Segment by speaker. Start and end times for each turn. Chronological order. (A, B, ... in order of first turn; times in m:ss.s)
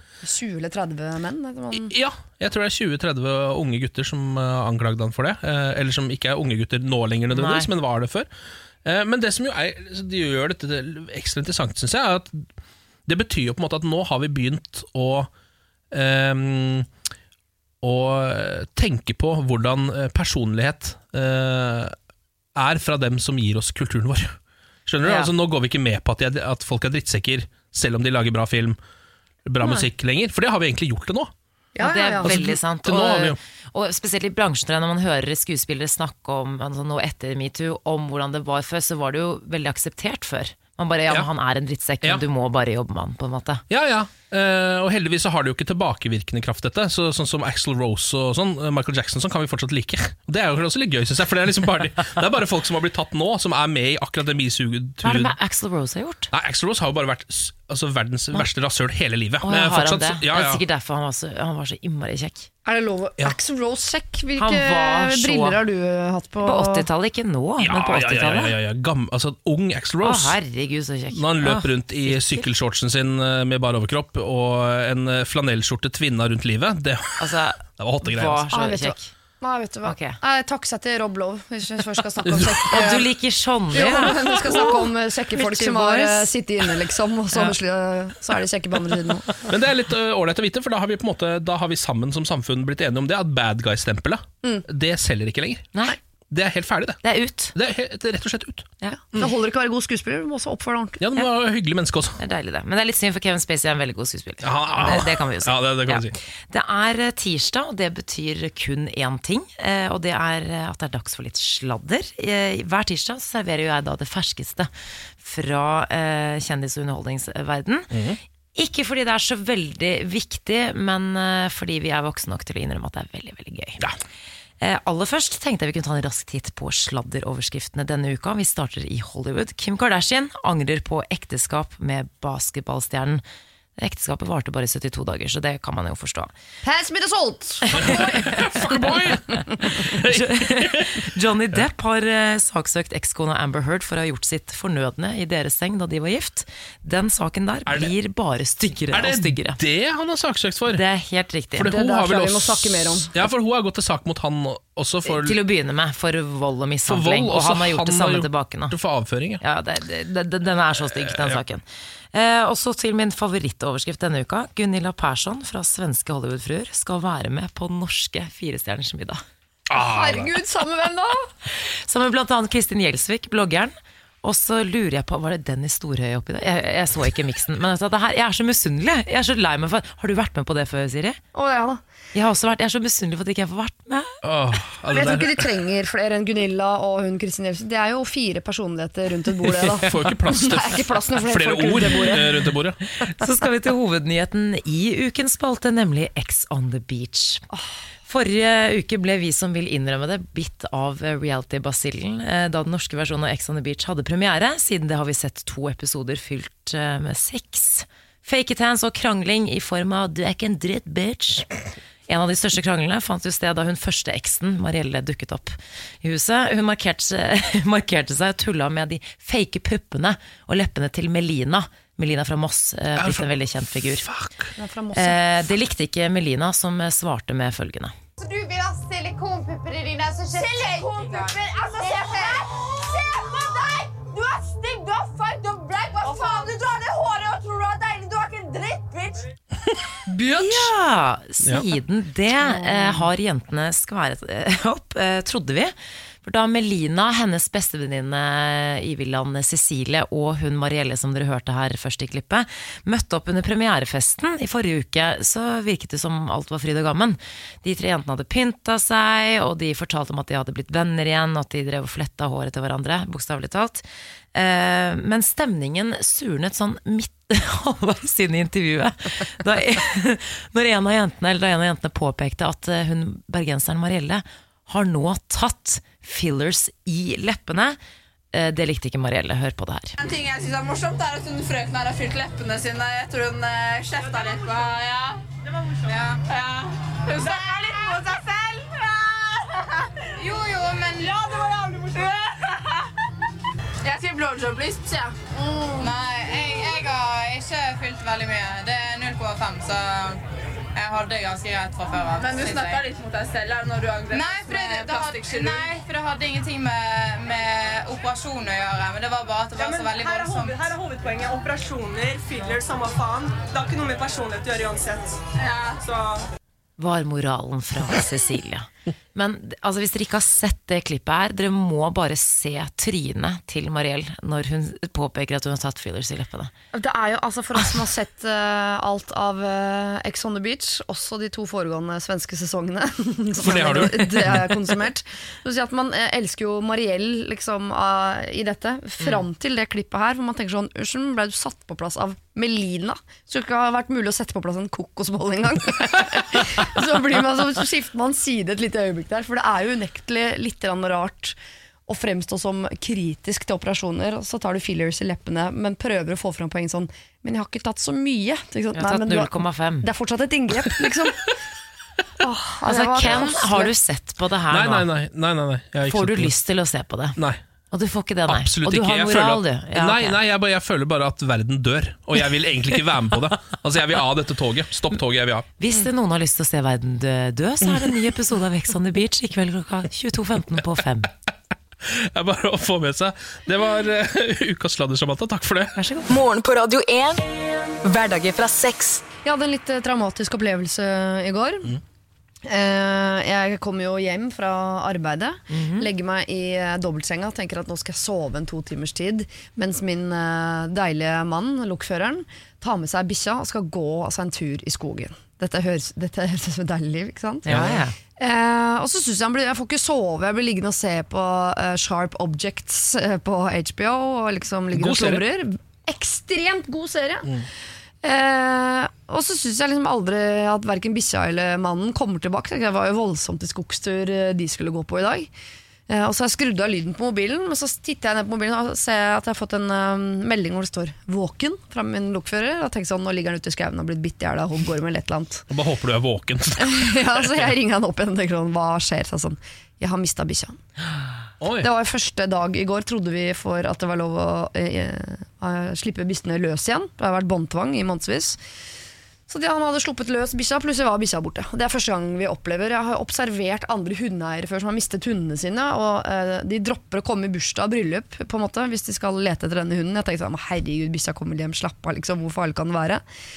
0:00.2-0:01.9 A
0:01.7-0:08.3 B
0:07.3-0:07.7 C
0:08.8-0:12.5 B
0:13.1-0:15.3 B
0:15.9-0:16.9 B
0:17.8-0:21.9 B
0:22.6-0:24.3 B
0:24.8-0:28.8 B
0:25.0-0:25.3 C
0:29.4-0:31.3 B
0:31.7-0:32.4 A
0:31.8-0:43.6 C
0:32.2-0:33.4 B
0:43.7-0:55.3 B
0:55.0-0:56.3 C
0:56.3-1:00.6 B
0:59.4-1:02.5 C
1:02.6-1:06.8 A
1:04.4-1:05.6 C
1:06.4-1:08.5 C
1:07.6-1:10.4 B
1:10.0-1:12.4 C
1:11.1-1:17.2 B
1:17.2-1:19.0 C
1:17.8-1:18.4 B
1:18.5-1:23.1 A
1:19.8-1:20.2 C
1:22.2-1:22.8 B
1:22.7-1:24.8 C
1:23.7-1:29.4 A
1:25.3-1:26.3 C
1:29.4-1:35.7 B
1:36.3-1:37.0 B
1:37.0-1:37.5 C
1:37.5-1:39.3 B
1:39.1-1:41.0 A
1:41.0-1:42.2 B
1:42.2-1:54.7 C
1:44.4-1:46.1 B
1:55.2-1:57.9 C
1:57.9-1:58.2 B
1:58.6-2:03.8 C
2:04.6-2:13.2 C
2:13.8-2:16.3 C
2:16.6-2:18.1 A
2:17.7-2:21.6 B
2:17.8-2:18.2 C
2:19.6-2:29.6 C
2:27.7-2:27.9 B
2:28.9-2:30.8 B
2:30.7-2:31.7 C
2:31.6-2:35.4 B
2:31.6-2:33.2 A
2:35.0-2:38.7 C
2:36.9-2:39.4 B
2:39.4-2:49.2 C
2:40.9-2:41.4 B
2:49.7-2:50.3 B
2:49.7-2:51.3 A
2:51.5-3:01.2 C
3:01.3-3:01.8 A
3:02.1-3:04.1 C
3:04.2-3:05.4 B
3:04.9-3:12.2 A
3:09.5-3:12.8 B
3:13.0-3:17.4 C
3:18.1-3:31.5 C
3:32.1-3:44.0 C
3:43.0-3:44.5 B
3:44.6-3:45.2 A
3:44.9-3:47.9 C
3:48.2-3:59.2 D
4:00.1-4:00.6 A
4:00.4-4:37.8 C
4:02.4-4:03.0 A
4:38.3-4:40.0 C
4:40.0-4:45.2 E
4:45.9-4:48.1 E
4:47.2-4:49.4 D
4:50.2-4:51.1 E
4:51.0-4:52.4 D
4:53.8-5:00.2 E
5:00.7-5:10.6 E
5:02.3-5:02.7 F
5:04.6-5:05.4 D
5:04.7-5:05.6 F
5:09.6-5:15.2 F
5:10.0-5:10.9 D
5:15.4-5:15.8 E
5:15.8-5:16.1 F
5:16.8-5:26.5 C
5:26.7-6:01.3 A
5:33.4-5:34.5 B
5:58.7-5:59.9 C
6:02.2-6:03.7 A
6:02.6-6:04.9 C
6:04.5-6:06.3 B
6:05.9-6:07.2 C
6:07.7-6:10.2 C
6:08.3-6:15.4 B
6:15.6-6:21.1 C
6:21.8-6:25.8 B
6:25.8-6:26.1 C
6:26.1-6:27.2 G
6:27.8-6:29.0 G
6:29.2-6:31.7 A
6:32.4-6:57.3 A
6:35.5-6:35.9 C
6:47.4-6:47.9 C
6:47.5-6:47.8 B
6:54.7-6:55.2 B
6:58.0-7:05.3 A
7:05.9-7:15.5 A
7:15.5-7:17.4 B
7:16.6-7:20.6 A
7:21.4-7:21.7 B
7:21.6-7:28.4 A
7:29.3-7:43.0 A